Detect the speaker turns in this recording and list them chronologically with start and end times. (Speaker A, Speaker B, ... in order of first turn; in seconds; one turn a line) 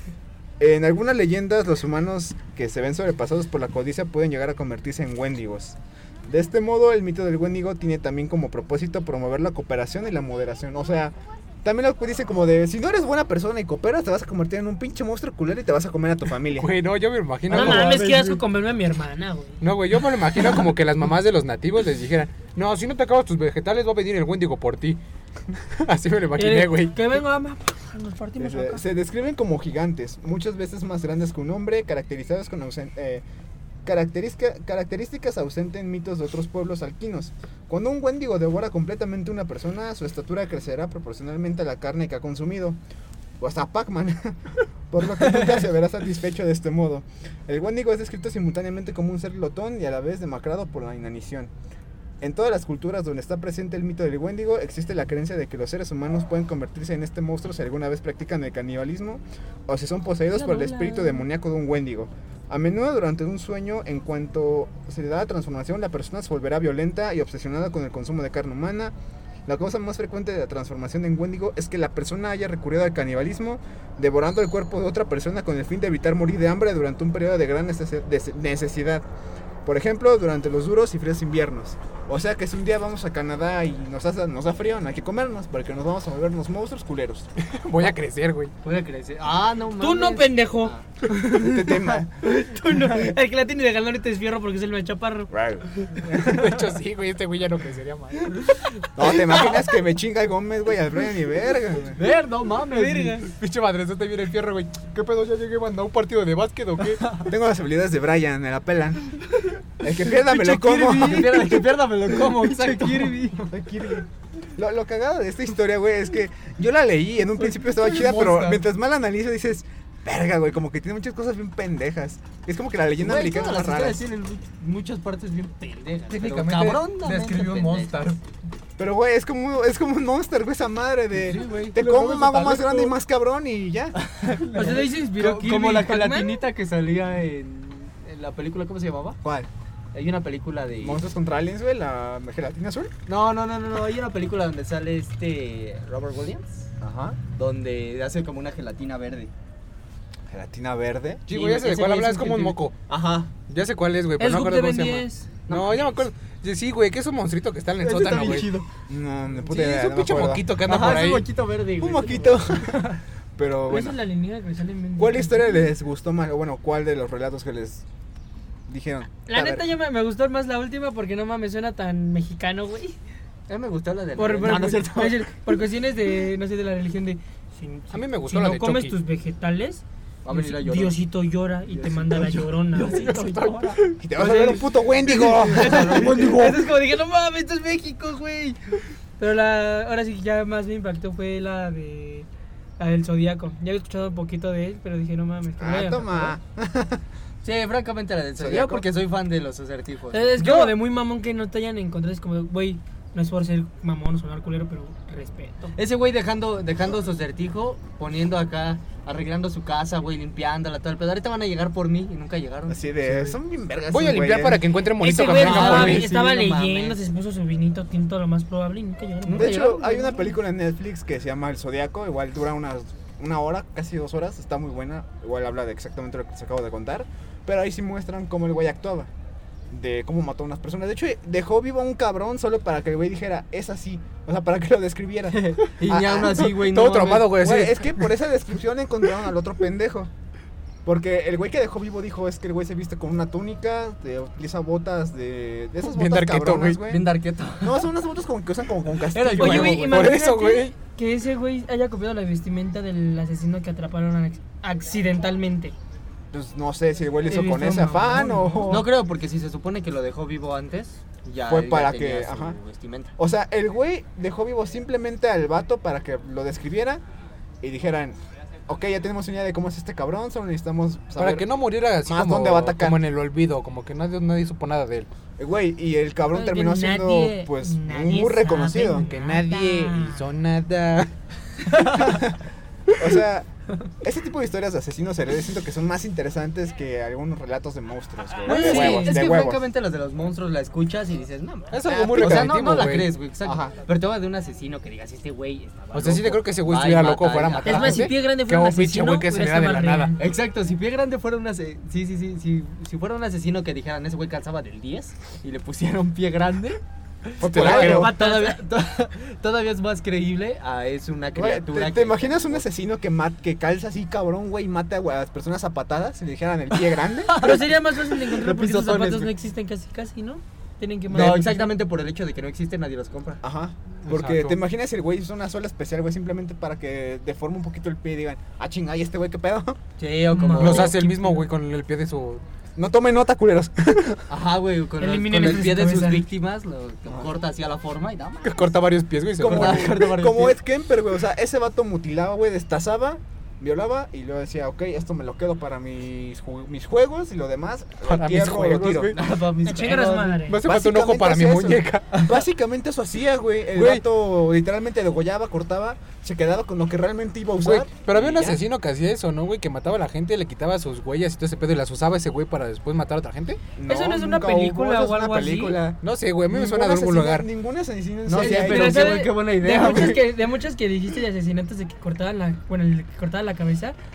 Speaker A: 0.6-16.7
Speaker B: 16.6-18.2
Speaker C: 17.5-18.4
Speaker D: 17.5-19.6
Speaker B: 19.6-25.0
Speaker B: 25.5-27.1
Speaker D: 26.4-28.8
Speaker A: 28.4-33.2
Speaker A: 33.9-42.8
Speaker A: 43.4-51.5
Speaker A: 52.2-68.9
Speaker D: 60.3-61.3
Speaker A: 69.5-79.0
Speaker A: 79.7-87.3
Speaker B: 87.4-88.5
Speaker C: 88.6-90.8
Speaker D: 89.8-96.0
Speaker A: 91.3-92.3
Speaker A: 95.3-96.5
Speaker B: 96.2-98.4
Speaker A: 99.0-102.0
Speaker C: 102.0-103.2
Speaker D: 102.7-103.3
Speaker B: 103.3-107.2
Speaker A: 107.2-109.2
Speaker A: 109.8-111.5
Speaker D: 110.2-111.7
Speaker C: 110.8-113.5
Speaker D: 112.3-113.2
Speaker A: 113.4-124.0
Speaker C: 117.9-118.5
Speaker B: 118.1-118.6
Speaker C: 123.0-128.1
Speaker B: 126.1-128.2
Speaker A: 128.8-133.9
Speaker C: 131.2-132.1
Speaker B: 131.4-132.9
Speaker C: 134.0-139.2
Speaker D: 134.5-136.4
Speaker A: 139.2-139.5
Speaker C: 139.9-141.0
Speaker A: 140.8-142.9
Speaker C: 143.1-146.7
Speaker A: 146.8-147.2
Speaker C: 147.3-149.3
Speaker A: 150.3-151.2
Speaker B: 151.3-152.7
Speaker C: 151.3-153.3
Speaker B: 153.5-158.5
Speaker D: 154.2-155.3
Speaker C: 155.5-156.0
Speaker C: 157.8-158.7
Speaker A: 158.9-160.5
Speaker B: 159.4-161.2
Speaker C: 160.6-162.7
Speaker A: 161.8-164.0
Speaker D: 163.7-165.4
Speaker A: 165.0-167.8
Speaker A: 168.7-169.7
Speaker D: 169.3-173.0
Speaker C: 173.5-175.2
Speaker D: 174.2-183.1
Speaker B: 177.9-179.0
Speaker C: 180.2-181.0
Speaker C: 181.7-188.8
Speaker B: 182.9-183.9
Speaker A: 184.0-186.2
Speaker D: 184.2-186.9
Speaker D: 189.2-192.3
Speaker D: 192.8-196.4
Speaker A: 195.6-197.0
Speaker C: 197.4-200.8
Speaker A: 198.4-198.8
Speaker D: 200.1-205.8
Speaker C: 205.8-213.3
Speaker A: 212.7-214.7
Speaker B: 213.9-216.1
Speaker D: 215.0-219.8
Speaker C: 215.2-217.0
Speaker C: 219.2-220.2
Speaker A: 219.3-229.1
Speaker A: 229.7-236.5
Speaker C: 235.3-237.4
Speaker B: 236.0-238.1
Speaker A: 237.3-240.1
Speaker A: 240.8-247.1
Speaker B: 245.8-246.8
Speaker C: 246.9-247.9
Speaker A: 247.6-250.0
Speaker C: 249.1-250.1
Speaker D: 249.3-255.8
Speaker B: 249.4-250.7
Speaker A: 256.3-258.9
Speaker D: 257.3-258.7
Speaker C: 258.6-263.1
Speaker A: 261.5-262.6
Speaker A: 263.2-267.0
Speaker A: 267.6-271.5
Speaker B: 271.2-275.1
Speaker A: 272.0-273.0
Speaker A: 275.4-279.1
Speaker D: 276.3-280.2
Speaker B: 278.8-281.1
Speaker B: 281.7-282.1
Speaker A: 282.0-282.4
Speaker A: 282.9-283.5
Speaker A: 284.0-289.6
Speaker D: 288.4-289.2
Speaker C: 288.4-298.1
Speaker B: 288.6-289.0
Speaker B: 291.7-293.1
Speaker A: 291.9-292.7
Speaker A: 293.4-293.8
Speaker B: 295.9-300.1
Speaker D: 297.6-300.3
Speaker C: 300.2-312.7
Speaker A: 307.4-308.2
Speaker D: 307.5-308.6
Speaker A: 311.4-317.6
Speaker C: 316.9-319.3
Speaker D: 317.4-321.7
Speaker C: 321.1-323.4
Speaker A: 321.1-321.4
Speaker A: 323.4-329.8
Speaker B: 324.1-324.6
Speaker C: 330.0-331.0
Speaker D: 330.3-331.4
Speaker B: 330.6-332.4
Speaker A: 332.8-334.2
Speaker C: 334.3-338.8
Speaker D: 335.0-336.3
Speaker B: 338.4-340.0
Speaker C: 339.4-340.6
Speaker A: 339.4-349.2
Speaker B: 348.1-349.2
Speaker C: 349.1-350.4
Speaker D: 349.6-350.6
Speaker B: 350.4-352.2
Speaker A: 350.6-357.9
Speaker B: 353.8-354.0
Speaker B: 357.6-363.6
Speaker C: 357.9-358.6
Speaker A: 363.8-369.2
Speaker D: 363.9-365.8
Speaker B: 366.0-367.5
Speaker C: 368.3-370.3
Speaker D: 368.4-374.0